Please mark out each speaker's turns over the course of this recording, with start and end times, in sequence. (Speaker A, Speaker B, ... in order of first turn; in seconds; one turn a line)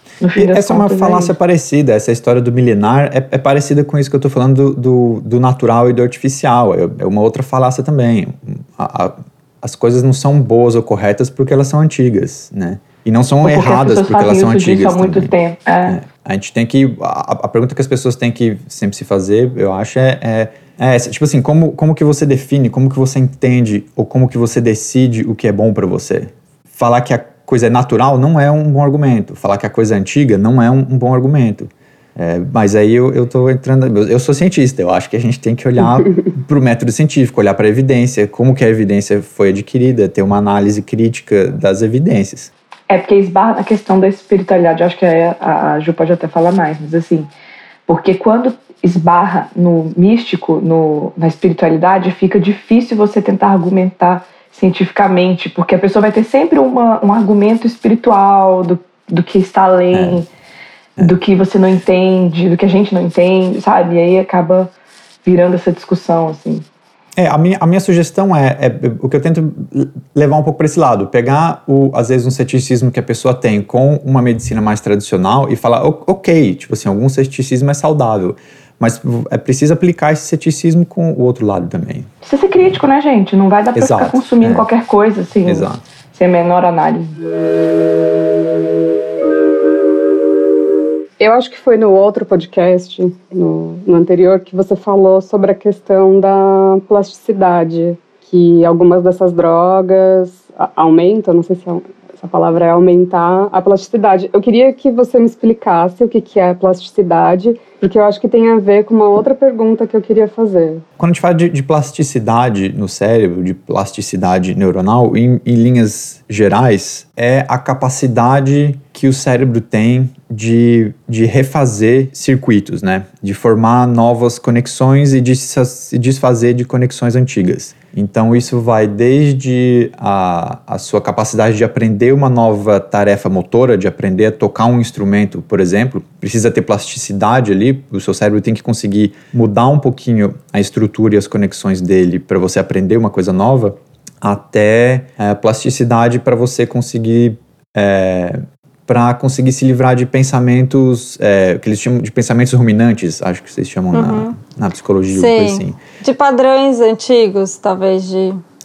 Speaker A: 0.2-1.3
Speaker B: 0.3-42.5
Speaker A: 13.4-16.0
Speaker A: 42.9-47.3
Speaker A: 47.9-60.3
Speaker B: 59.9-60.2
Speaker A: 61.0-64.7
Speaker A: 65.2-66.7
Speaker B: 67.2-82.1
Speaker A: 82.2-87.2
Speaker B: 83.7-84.7
Speaker B: 85.4-85.8
Speaker C: 91.2-110.8
Speaker B: 111.0-155.8
Speaker D: 153.9-154.3
Speaker D: 155.1-158.4